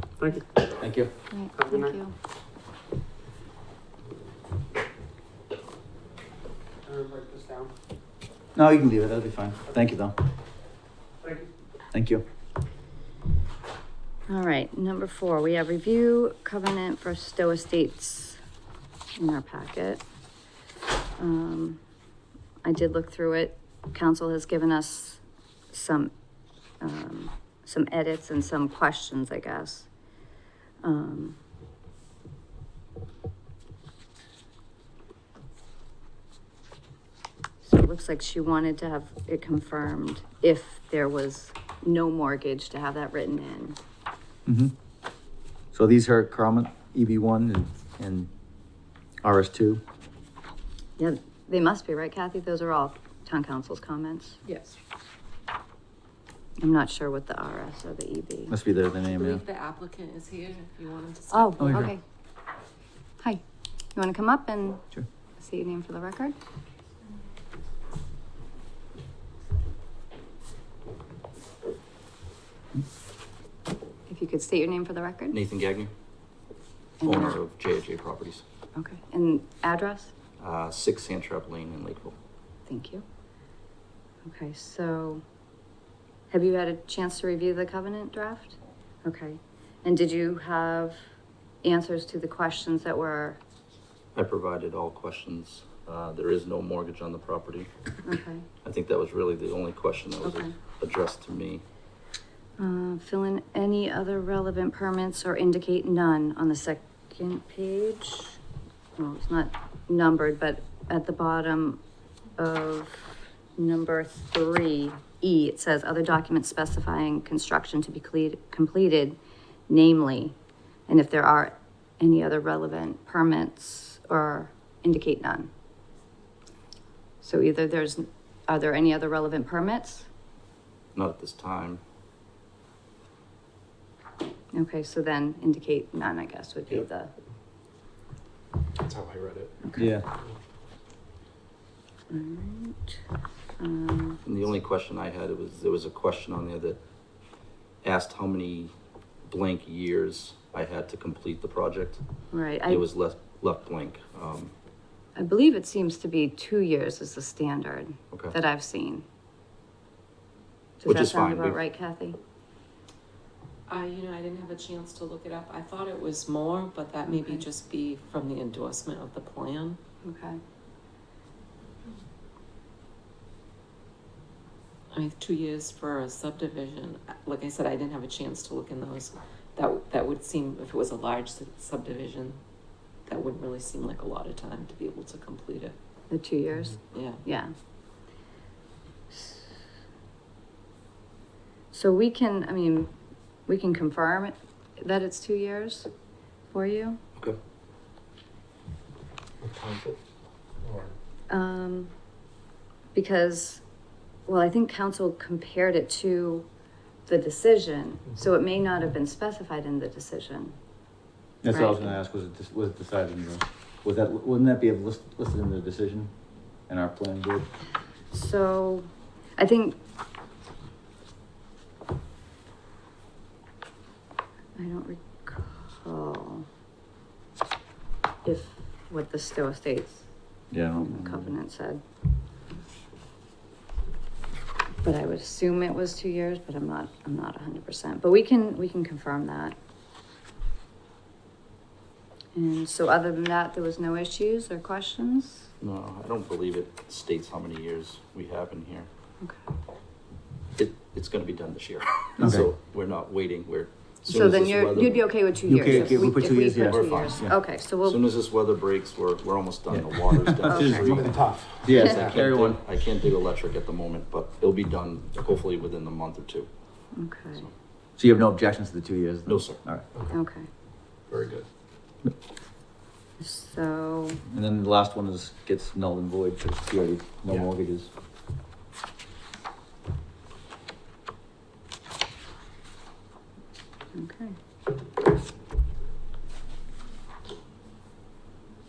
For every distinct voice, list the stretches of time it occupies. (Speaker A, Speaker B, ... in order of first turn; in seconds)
Speaker A: 0.2-0.5, 1.6-1.9, 6.8-7.7, 11.2-11.5
Speaker B: 0.7-1.1, 8.5-10.1, 11.9-12.2, 44.5-44.7, 45.7-48.3, 49.2-49.8, 58.5-59.4, 61.6-61.9, 139.8-140.1, 211.4-216.1, 216.7-217.5, 230.5-231.3, 252.2-252.5, 255.4-257.4, 259.7-262.6, 268.0-269.9, 274.3-277.9
Speaker C: 1.3-2.1, 14.3-18.4, 19.1-20.0, 21.2-21.8, 22.6-26.1, 26.8-29.9, 30.8-31.4, 37.6-43.8, 51.0-54.4, 56.6-58.5, 61.3-62.0, 63.9-64.8, 65.4-66.3, 74.1-75.4, 77.0-77.4, 78.8-80.1, 82.7-83.0, 84.2-85.2, 86.3-91.0, 91.6-93.4, 98.0-98.5, 100.2-100.5, 102.6-108.4, 109.0-111.8, 112.4-119.2, 119.7-120.3, 120.9-125.5, 127.2-130.1, 134.5-137.1, 139.6-139.9, 142.1-143.0, 143.6-144.2, 152.3-152.8, 155.2-159.0, 160.8-162.2, 167.1-167.4, 170.0-170.4, 186.1-187.5, 189.1-189.5, 191.7-192.9, 193.5-195.9, 196.5-197.0, 201.3-201.9, 202.9-203.6, 204.3-206.5, 207.1-210.5, 211.5-212.0, 218.1-218.9, 219.4-219.8, 224.6-226.5, 228.2-230.1, 230.8-231.8, 234.8-239.6, 242.3-245.5, 254.0-258.0, 260.4-261.1, 266.9-267.5, 270.1-270.5, 273.2-274.2, 283.9-284.4
Speaker D: 54.4-54.8, 59.0-61.8, 163.7-169.8, 174.9-182.4, 183.1-185.7, 186.9-187.2
Speaker E: 75.3-75.9, 77.0-78.4, 80.4-82.2, 94.1-97.7, 98.6-101.6, 130.9-131.8, 144.2-146.8, 147.8-148.7, 149.3-152.0, 152.7-154.5, 160.8-161.6, 245.6-248.9, 250.6-266.5, 269.3-269.6
Speaker F: 138.8-139.6, 199.4-200.0, 200.6-200.9, 260.9-262.2, 271.1-271.4